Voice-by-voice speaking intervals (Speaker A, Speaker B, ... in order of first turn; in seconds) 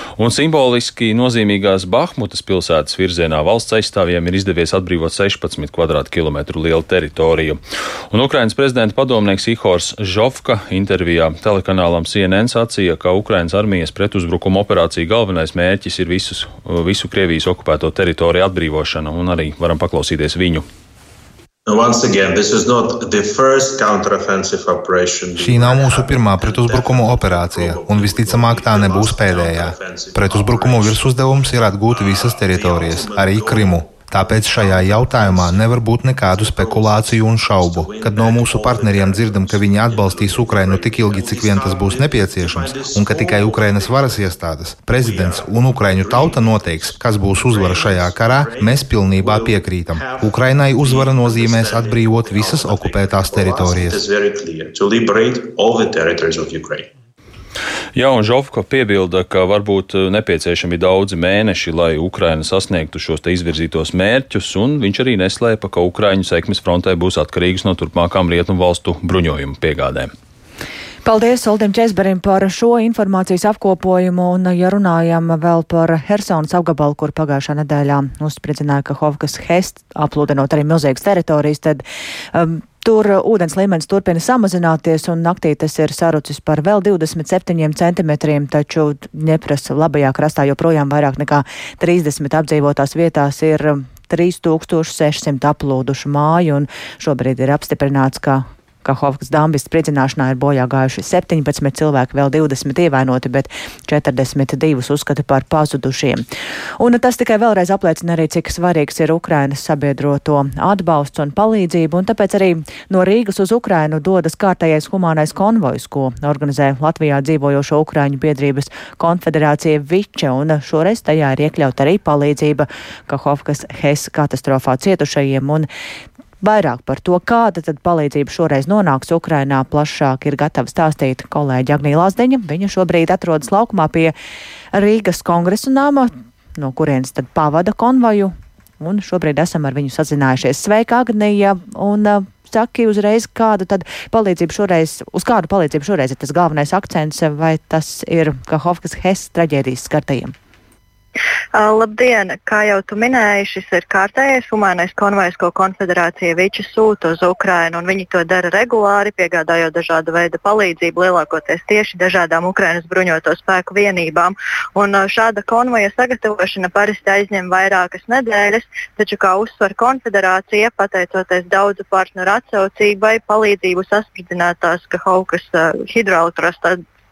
Speaker A: 0.2-20.6, 58.0-70.1
Speaker B: 21.7-44.4, 45.0-56.9
Speaker C: 25.4-54.0
Speaker D: 71.0-106.3, 106.8-125.7, 126.4-134.1, 134.7-150.3
Speaker E: 151.5-176.8